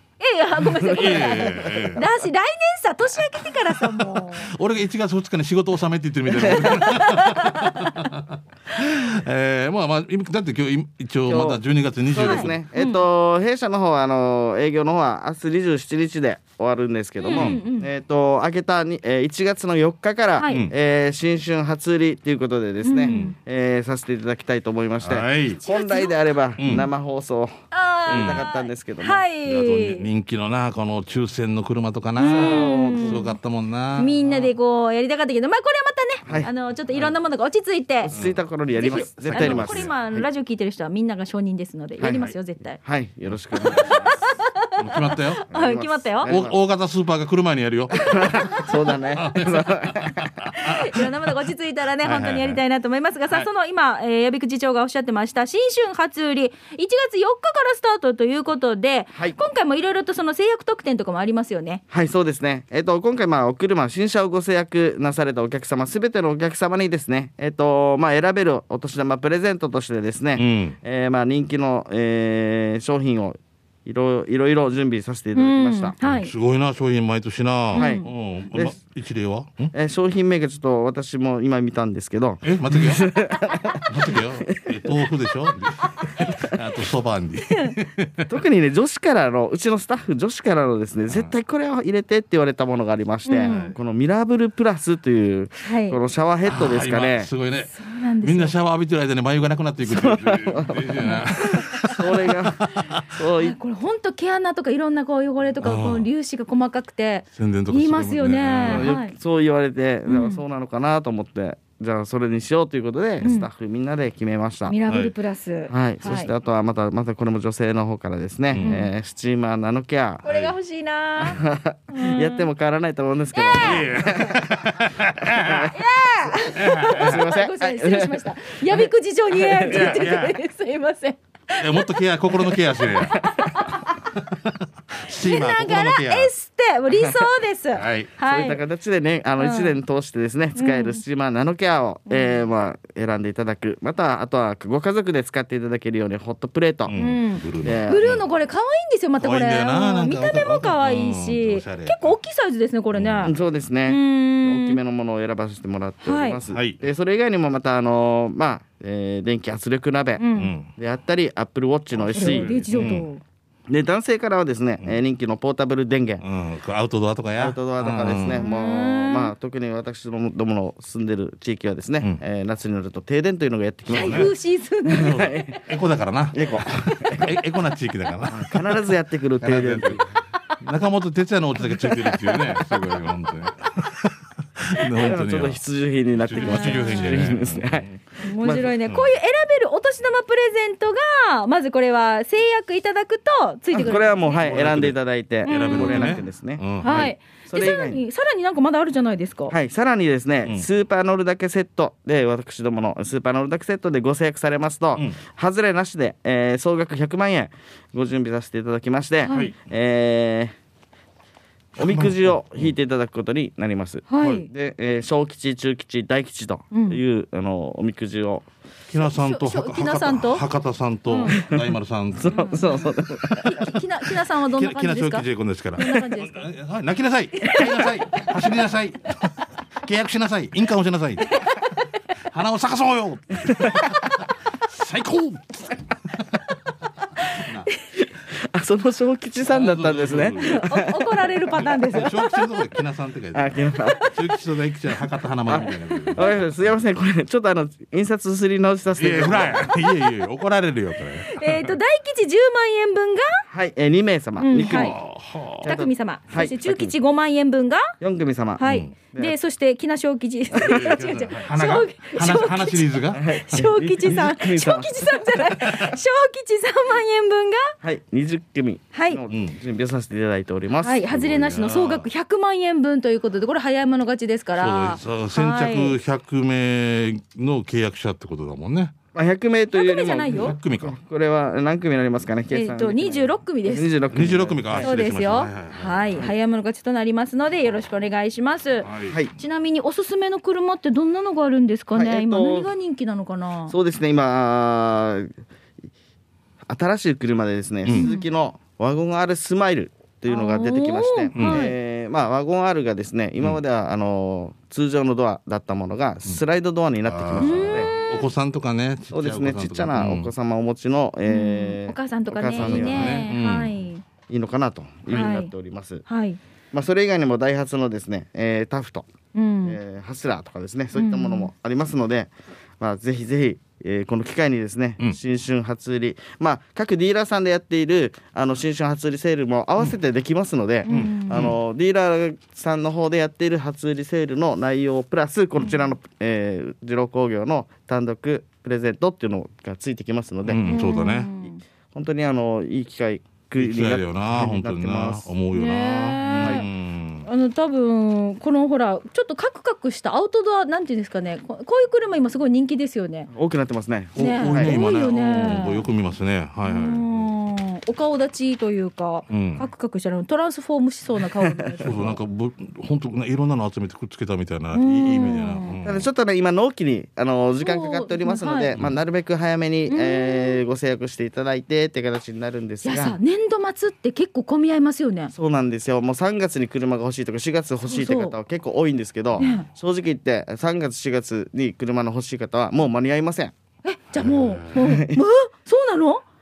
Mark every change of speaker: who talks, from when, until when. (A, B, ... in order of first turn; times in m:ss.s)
0:00.2-0:04.5 A
0:00.6-0:02.0 B
0:00.9-0:02.0 C
0:03.8-0:12.6 C
0:06.4-0:06.7 B
0:06.6-0:08.0 A
0:11.3-0:27.5 B
0:12.2-0:13.0 A
0:17.2-0:17.9 A
0:17.3-0:17.6 C
0:20.4-0:20.7 A
0:20.5-0:20.7 C
0:22.8-0:23.3 A
0:25.0-0:25.6 C
0:25.6-0:26.2 A
0:26.6-0:26.9 C
0:27.7-0:30.0 A
0:28.1-0:29.2 B
0:28.1-0:28.4 C
0:29.4-0:34.1 C
0:32.2-0:33.3 A
0:32.2-0:33.3 B
0:34.0-0:38.1 A
0:34.2-0:34.5 B
0:36.2-0:36.5 B
0:38.0-0:40.3 B
0:38.1-0:39.9 C
0:38.8-0:42.8 A
0:42.0-0:44.1 B
0:43.5-0:46.3 A
0:44.8-0:45.4 C
0:45.5-0:46.6 B
0:46.2-0:48.6 C
0:48.0-0:50.3 B
0:48.2-0:48.6 A
0:49.1-0:51.1 C
0:50.5-1:01.8 A
0:52.0-0:52.6 C
1:01.9-1:15.9 B
1:10.4-1:10.8 C
1:15.3-1:16.3 A
1:16.0-1:19.7 C
1:17.7-1:18.1 A
1:17.7-1:18.7 B
1:19.7-1:24.9 B
1:22.4-1:23.0 C
1:23.8-1:28.3 C
1:25.8-1:26.2 A
1:26.3-1:26.6 B
1:27.5-1:27.7 A
1:28.3-1:37.3 B
1:33.2-1:33.7 A
1:33.4-1:33.7 C
1:35.6-1:36.0 A
1:36.4-1:43.0 C
1:37.7-1:38.5 A
1:39.8-1:43.6 B
1:41.0-1:41.9 A
1:43.4-1:49.1 A
1:45.6-1:46.1 C
1:47.4-1:48.9 C
1:48.6-1:54.8 B
1:50.1-1:50.4 A
1:53.2-1:53.5 A
1:54.7-1:56.3 A
1:55.7-2:00.2 B
1:58.6-1:58.9 A
2:00.2-2:01.4 A
2:01.2-2:04.5 B
2:01.9-2:02.5 A
2:03.3-2:03.9 A
2:03.5-2:05.7 C
2:05.2-2:05.8 B
2:05.6-2:13.9 A
2:06.5-2:07.2 C
2:06.9-2:08.8 B
2:09.4-2:10.0 B
2:09.7-2:10.4 C
2:11.5-2:16.3 C
2:15.2-2:18.6 A
2:17.7-2:18.1 C
2:18.2-2:27.0 B
2:19.4-2:19.8 A
2:20.5-2:21.0 A
2:22.1-2:22.4 A
2:26.9-2:28.2 C
2:27.0-2:33.4 A
2:27.6-2:28.1 B
2:29.2-2:32.2 C
2:32.9-2:33.3 C
2:33.2-2:43.0 B
2:33.9-2:34.8 A
2:36.0-2:36.4 A
2:36.5-2:36.8 C
2:40.2-2:40.5 A
2:40.4-2:40.7 C
2:42.0-2:43.1 C
2:42.1-2:43.2 A
2:43.7-2:46.2 B
2:46.2-2:48.4 C
2:47.4-2:54.3 B
2:48.4-2:49.3 A
2:53.9-2:54.3 C
2:53.9-2:55.2 A
2:54.8-2:55.6 B
2:54.9-2:58.6 C
2:56.3-2:57.3 B
2:56.8-2:57.2 A
2:58.3-3:00.0 B
2:59.4-3:00.0 C
3:00.6-3:05.6 C
3:02.2-3:02.6 B
3:04.9-3:07.9 B
3:06.2-3:07.9 C
3:06.4-3:07.3 A
3:08.2-3:14.4 A
3:08.4-3:08.7 B
3:13.7-3:18.0 B
3:14.4-3:17.1 C
3:15.4-3:16.2 A
3:16.8-3:19.5 A
3:19.5-3:30.5 B
3:29.2-3:29.5 A
3:31.8-3:38.5 B
3:31.8-3:32.7 C
3:34.1-3:34.5 A
3:36.7-3:37.0 A
3:38.9-3:42.7 C
3:39.0-3:40.4 A
3:41.1-3:41.4 A
3:41.4-3:43.5 B
3:42.3-3:42.9 A
3:43.2-3:43.6 C
3:43.4-3:46.5 A
3:44.5-3:49.2 C
3:47.4-3:48.2 A
3:49.8-3:51.4 C
3:51.2-3:51.8 A
3:52.3-3:55.8 C
3:57.2-3:57.8 A
3:57.4-3:57.7 C
3:58.0-4:01.1 B
3:59.4-4:00.7 C
4:00.4-4:02.3 A
4:01.5-4:06.3 C
4:03.3-4:04.1 B
4:03.9-4:04.4 A
4:05.5-4:09.8 B
4:05.6-4:06.4 A
4:09.0-4:11.7 C
4:09.8-4:10.0 A
4:11.3-4:13.4 A
4:13.5-4:15.0 B
4:14.4-4:15.0 A
4:14.5-4:15.7 C
4:15.6-4:16.9 B
4:15.6-4:17.9 A
4:18.0-4:19.3 B
4:18.6-4:27.7 A
4:18.6-4:18.9 C
4:20.5-4:21.0 B
4:20.7-4:23.3 C
4:23.1-4:25.5 B
4:27.8-4:31.3 B
4:28.9-4:29.2 A
4:29.3-4:29.6 C
4:30.8-4:36.0 A
4:31.1-4:32.1 C
4:34.6-4:38.9 C
4:39.1-4:44.9 B
4:39.7-4:40.6 A
4:40.3-4:41.0 C
4:42.5-4:43.9 A
4:44.1-4:46.3 C
4:44.8-4:53.7 A
4:48.8-4:49.2 C
4:51.9-4:52.7 B
4:53.7-4:55.3 B
4:56.6-5:07.9 B
4:57.9-4:58.2 A
5:00.3-5:01.7 A
5:01.4-5:01.7 C
5:07.1-5:10.3 C
5:07.4-5:08.2 A
5:09.1-5:13.2 B
5:11.3-5:14.0 A
5:12.6-5:13.8 C
5:14.3-5:16.0 B
5:15.1-5:15.5 A
5:16.0-5:16.4 A
5:16.7-5:19.1 B
5:19.3-5:19.8 A
5:19.6-5:40.6 B
5:20.9-5:21.5 A
5:30.8-5:31.5 A
5:30.9-5:31.5 C
5:40.4-5:41.3 C
5:40.6-5:41.6 A
5:41.9-5:45.3 B
5:43.6-5:47.3 C
5:45.5-5:46.7 A
5:46.4-5:46.6 B
5:47.2-5:53.3 A
5:53.3-5:54.8 B
5:54.2-5:55.8 A
5:54.2-5:57.2 C
5:56.6-6:02.1 A
5:59.3-5:59.7 C
6:01.5-6:02.1 B
6:01.8-6:06.1 C
6:04.7-6:05.7 A
6:05.8-6:13.2 B
6:07.6-6:08.7 A
6:09.9-6:10.6 A
6:12.8-6:15.3 A
6:15.3-6:23.5 B
6:17.9-6:18.3 A
6:19.4-6:19.7 A
6:23.8-6:26.2 A
6:24.1-6:24.9 C
6:24.8-6:25.2 B